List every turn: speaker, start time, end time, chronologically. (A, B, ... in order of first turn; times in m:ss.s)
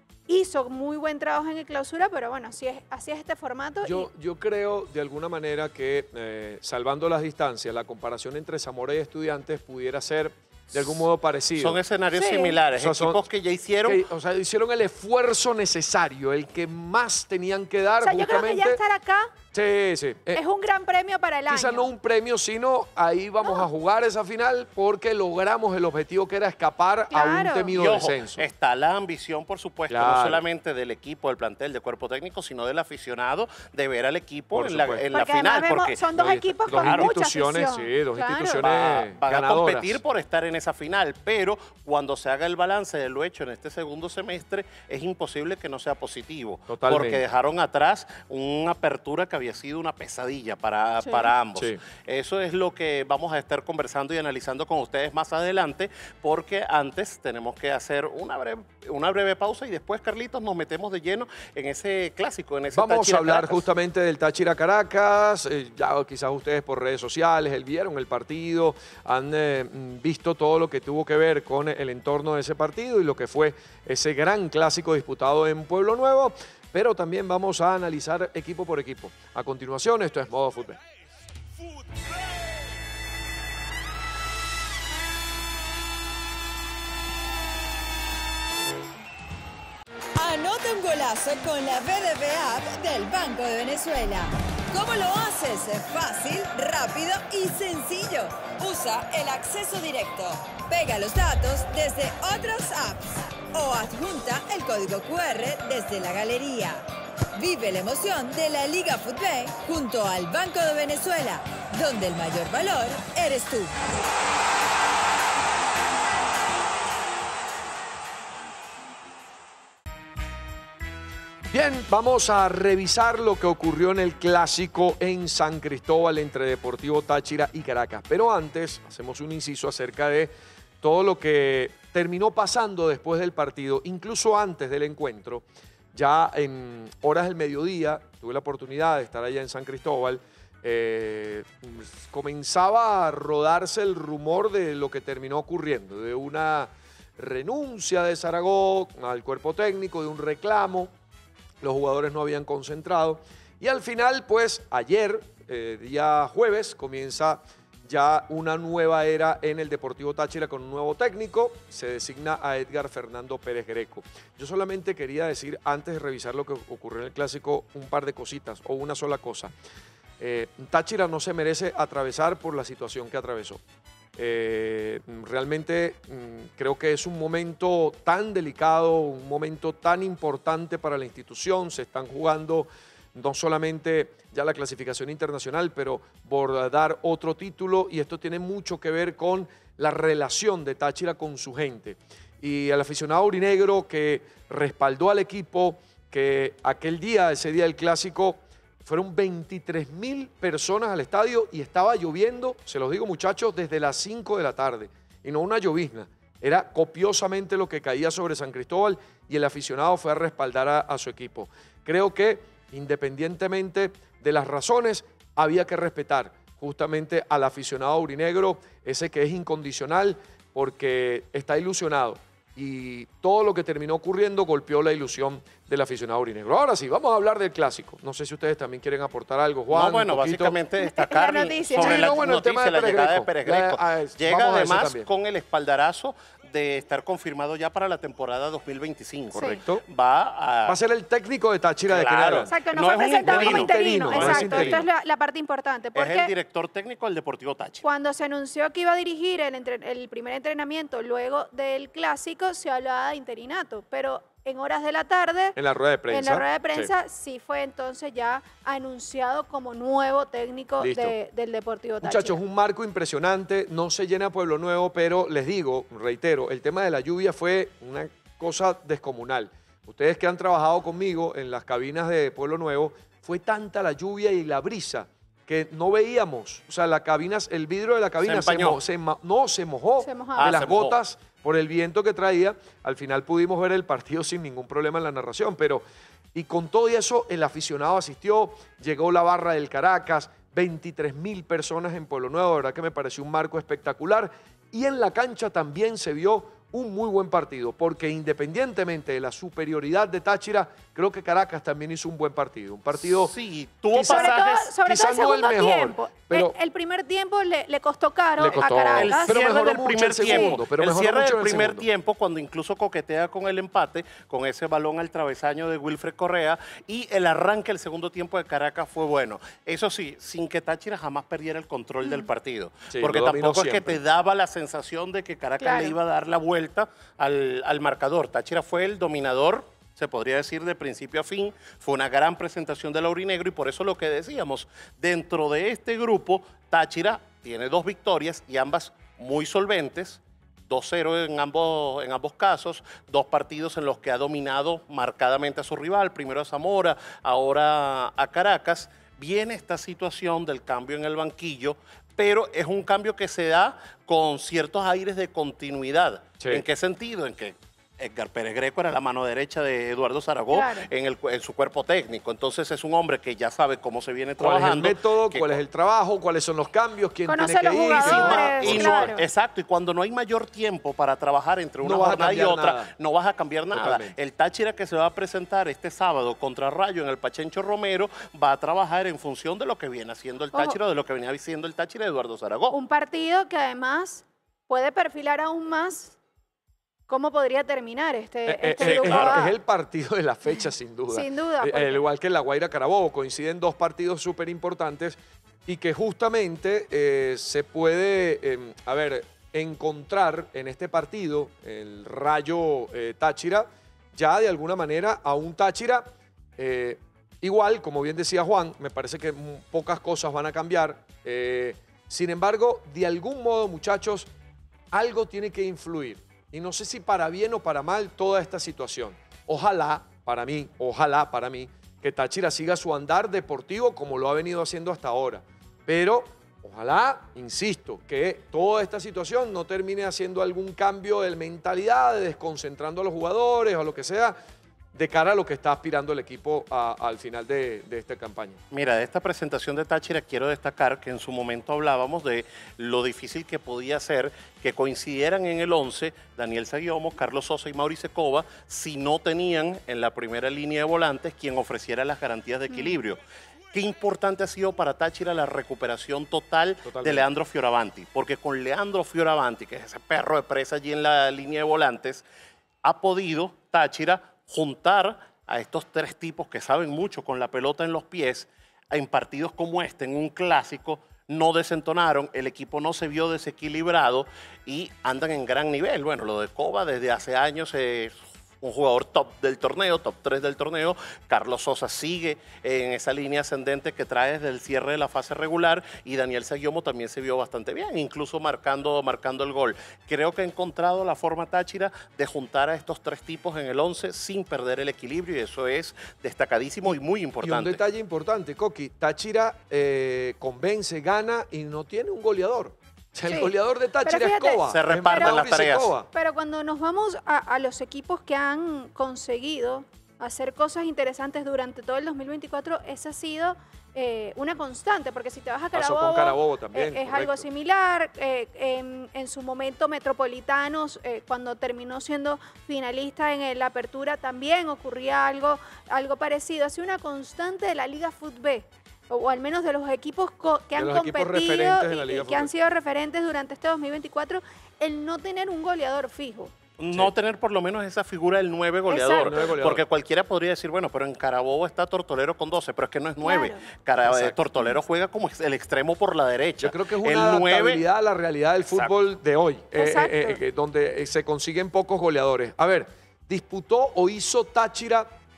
0:00.3-0:04.1 A
0:03.8-0:11.8 B
0:10.7-0:11.0 C
0:11.6-0:14.0 C
0:12.1-0:12.6 A
0:12.8-0:13.2 B
0:13.8-0:18.8 B
0:18.0-0:19.3 A
0:19.5-0:20.4 B
0:20.3-0:21.9 A
0:21.5-0:28.5 B
0:27.1-0:27.7 A
0:27.7-0:36.0 C
0:29.9-0:30.4 B
0:34.5-0:35.0 B
0:35.1-0:38.6 A
0:36.2-0:40.0 B
0:36.7-0:37.1 C
0:38.6-1:03.6 C
0:46.7-0:47.2 B
0:51.6-0:51.8 B
1:02.7-1:20.8 B
1:30.2-1:53.7 D
2:01.5-2:30.9 B
2:31.6-2:49.5 B
2:50.2-2:53.6 B
2:54.2-3:50.5 B
3:49.7-4:00.8 C
3:50.8-3:52.2 A
3:51.8-3:55.1 B
3:59.4-3:59.6 A
3:59.4-3:59.8 B
4:00.6-4:02.5 B
4:01.9-4:04.8 C
4:02.5-4:06.3 A
4:03.2-4:04.8 B
4:05.9-4:07.8 C
4:07.8-4:15.6 A
4:15.6-4:16.9 B
4:16.1-4:22.4 A
4:20.8-4:21.1 B
4:22.0-4:45.8 B
4:38.2-4:38.8 C
4:40.0-4:40.5 A
4:40.4-4:41.0 C
4:46.3-5:03.3 B
5:02.9-5:04.7 C
5:03.9-5:04.3 B
5:04.0-5:09.4 A
5:04.8-5:06.5 B
5:08.4-5:11.8 B
5:08.9-6:05.6 C
5:10.2-5:10.6 A
5:22.9-5:24.0 B
5:25.6-5:25.9 A
6:00.5-6:00.9 A
6:04.4-6:09.2 B
6:07.3-6:09.2 A
6:07.9-6:22.8 C
6:11.8-6:12.9 B
6:13.7-6:14.1 B
6:22.7-6:26.2 A
6:27.1-6:29.5 A
6:28.4-6:46.1 B
6:28.8-6:29.4 C
6:31.1-6:32.0 A
6:46.6-6:54.3 B
6:54.9-7:14.4 B
7:14.9-7:18.6 B
7:18.7-7:33.2 C
7:32.7-7:33.0 A
7:33.7-7:42.2 C
7:36.8-7:37.2 B
7:42.8-8:17.8 C
8:17.4-8:26.1 B
8:23.3-8:23.5 A
8:24.0-8:25.4 A
8:24.7-8:25.9 C
8:26.1-8:56.5 A
8:35.7-8:37.4 B
8:50.8-8:52.5 B
8:56.8-9:07.8 C
8:58.9-8:59.5 A
8:59.1-8:59.8 B
9:03.2-9:03.6 A
9:04.0-9:04.4 B
9:06.6-9:15.1 B
9:09.8-9:10.4 A